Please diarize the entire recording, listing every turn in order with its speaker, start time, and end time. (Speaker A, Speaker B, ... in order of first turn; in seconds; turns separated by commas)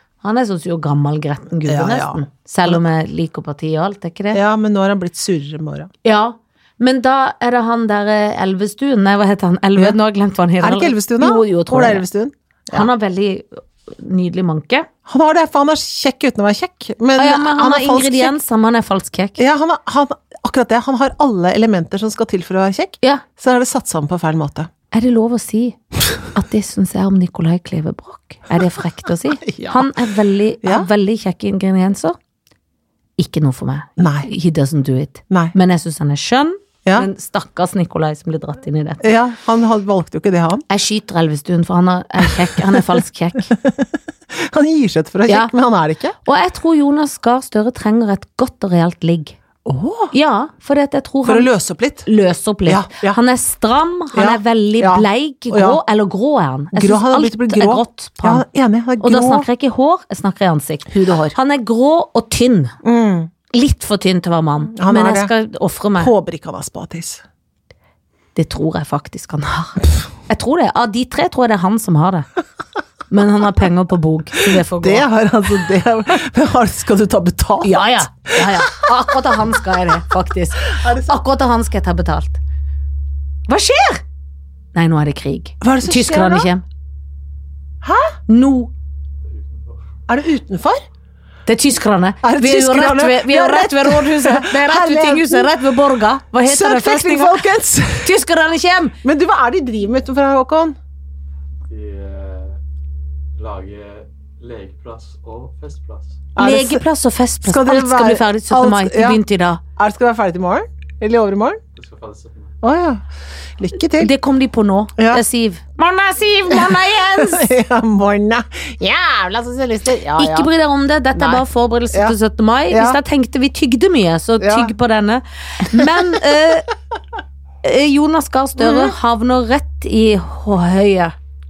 Speaker A: 0.2-4.4, Speaker B: 1.7-2.8, Speaker B: 4.3-5.9, Speaker A: 6.0-12.1, Speaker B: 10.6-12.9, Speaker A: 12.7-14.9, Speaker B: 15.1-18.4, Speaker A: 17.2-19.4, Speaker B: 19.4-24.7, Speaker A: 24.9-25.8, Speaker A: 26.3-32.2, Speaker B: 29.4-29.9, Speaker B: 30.6-30.9, Speaker A: 33.2-39.1, Speaker B: 34.0-34.3, Speaker B: 35.3-35.5, Speaker B: 39.0-40.6, Speaker A: 40.7-43.5, Speaker B: 42.5-46.2, Speaker A: 46.2-49.4, Speaker B: 49.6-50.1, Speaker A: 50.1-51.5, Speaker B: 51.2-52.1, Speaker A: 52.0-58.5, Speaker B: 52.7-53.2, Speaker B: 54.1-55.8, Speaker B: 56.7-59.5, Speaker A: 59.0-62.8, Speaker B: 60.9-61.4, Speaker B: 62.8-63.3, Speaker A: 63.5-66.1, Speaker B: 64.7-65.3, Speaker B: 66.0-67.2, Speaker A: 68.3-72.3, Speaker A: 73.1-75.1, Speaker B: 74.8-79.1, Speaker A: 77.6-82.4, Speaker B: 80.7-81.2, Speaker A: 83.5-84.0, Speaker A: 84.8-86.6, Speaker B: 85.6-86.5, Speaker B: 87.8-88.2, Speaker A: 88.3-88.7, Speaker C: 89.2-90.0, Speaker B: 90.1-90.8, Speaker A: 91.5-97.4, Speaker B: 92.2-95.6, Speaker B: 96.4-98.2, Speaker A: 98.0-99.0, Speaker B: 99.0-100.8, Speaker C: 101.7-102.6, Speaker C: 103.4-106.3, Speaker B: 106.4-106.8, Speaker A: 106.4-109.6, Speaker B: 107.4-109.2, Speaker B: 109.8-111.6, Speaker C: 111.8-112.6, Speaker B: 112.6-113.0, Speaker B: 113.6-114.1, Speaker A: 114.0-117.5, Speaker B: 115.0-115.2, Speaker B: 116.5-120.5, Speaker A: 120.2-126.7, Speaker B: 121.2-122.2, Speaker B: 122.7-123.0, Speaker B: 124.4-124.7, Speaker B: 125.7-126.1, Speaker A: 127.6-131.2, Speaker B: 128.6-128.9